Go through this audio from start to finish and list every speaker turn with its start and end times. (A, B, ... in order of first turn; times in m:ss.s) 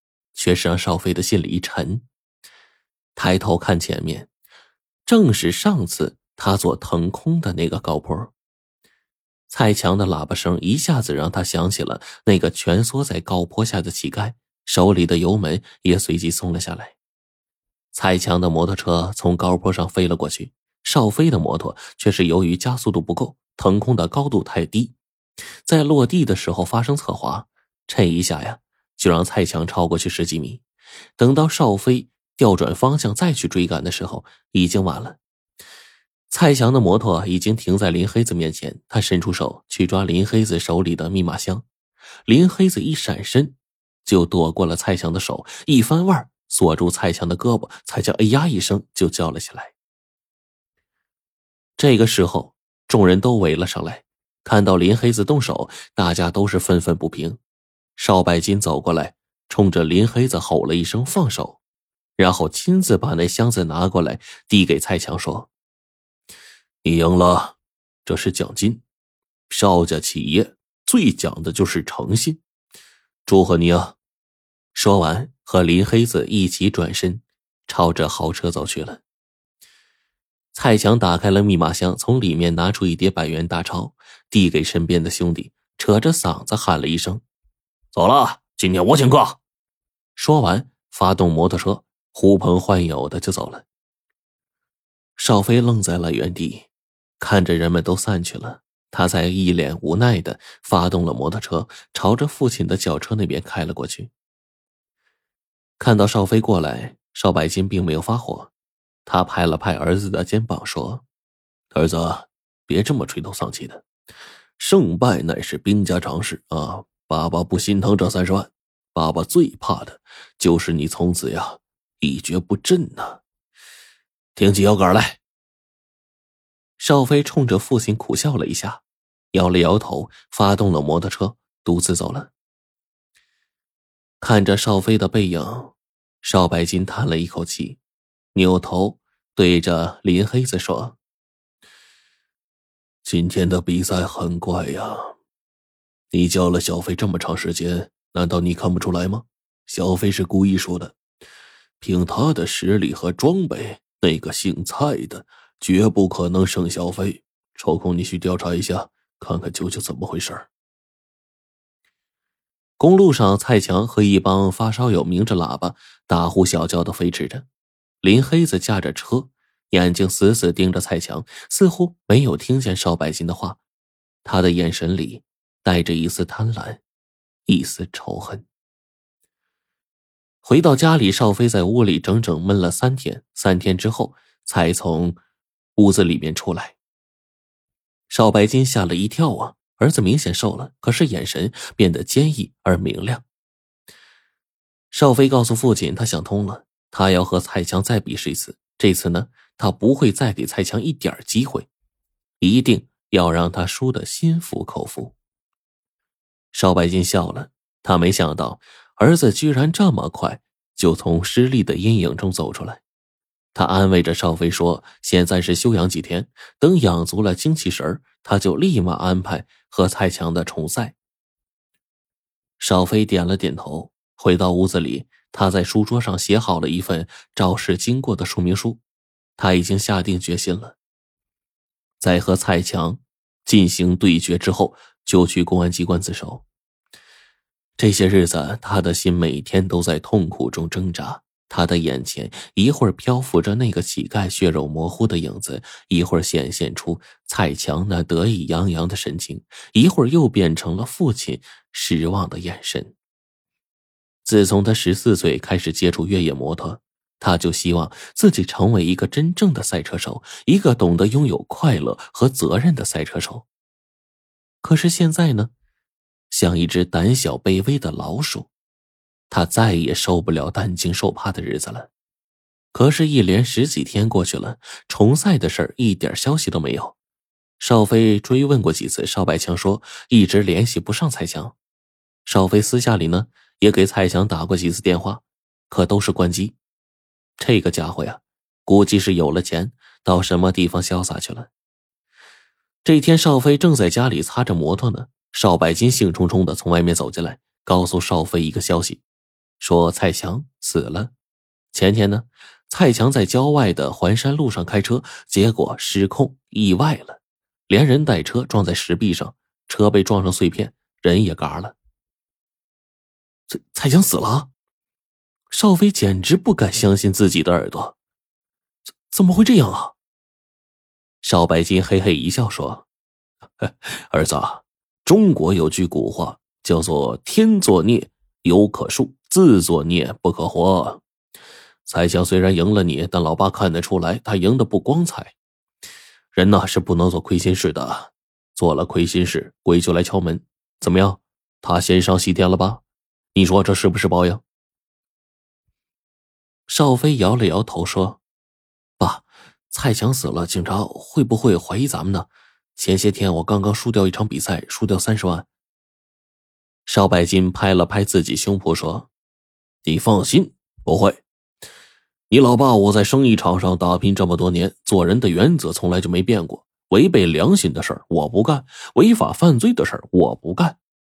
0:00.3-0:02.0 A
0:03.2-0:04.3 A
0:05.0-0:08.3 A
0:09.5-0:16.9 A
0:17.9-0:25.0 A
0:25.6-0:30.6 A
0:31.2-0:35.2 A
0:36.3-0:41.6 A
0:42.3-0:49.7 A
0:51.8-0:57.4 A
0:58.0-1:01.6 A
1:02.2-1:05.5 A
1:06.8-1:08.8 A
1:09.5-1:12.4 A
1:13.2-1:14.0 A
1:14.7-1:19.0 A
1:20.5-1:27.2 A
1:27.9-1:29.4 A
1:30.2-1:33.6 A
1:35.2-1:36.7 A
1:37.2-1:44.1 A
1:45.8-1:48.5 A
1:49.0-1:51.0 A
1:51.7-1:53.8 A
1:54.6-2:03.2 A
2:04.4-2:05.2 A
2:06.8-2:08.8 A
2:09.3-2:12.3 A
2:14.2-2:17.8 A
2:18.3-2:21.0 A
2:23.0-2:25.1 A
2:26.1-2:30.9 A
2:31.8-2:40.5 A
2:42.8-2:47.4 A
2:48.0-2:53.6 A
2:54.2-2:56.8 A
2:57.5-2:58.4 A
3:00.4-3:05.2 A
3:05.8-3:06.8 A
3:08.1-3:13.2 A
3:14.9-3:21.7 A
3:22.4-3:25.1 A
3:26.5-3:32.8 A
3:33.5-3:41.0 A
3:42.6-3:48.8 A
3:49.4-3:50.8 A
3:52.0-3:56.4 A
3:57.8-4:12.9 A
4:14.2-4:23.4 A
4:24.6-4:25.5 A
4:26.3-4:28.5 A
4:29.3-4:31.9 A
4:32.7-4:37.0 A
4:37.6-4:41.5 A
4:42.2-4:46.6 A
4:47.4-4:51.5 A
4:52.8-4:59.0 A
4:59.6-5:01.1 A
5:01.7-5:11.7 A
5:13.5-5:14.5 A
5:15.5-5:17.9 A
5:19.1-5:19.9 A
5:21.2-5:22.8 A
5:23.6-5:31.0 A
5:31.8-5:35.3 A
5:36.3-5:42.8 A
5:43.3-5:44.4 A
5:46.7-5:48.2 A
5:49.0-5:55.4 A
5:56.8-5:59.1 A
5:59.8-6:01.2 A
6:02.3-6:10.8 A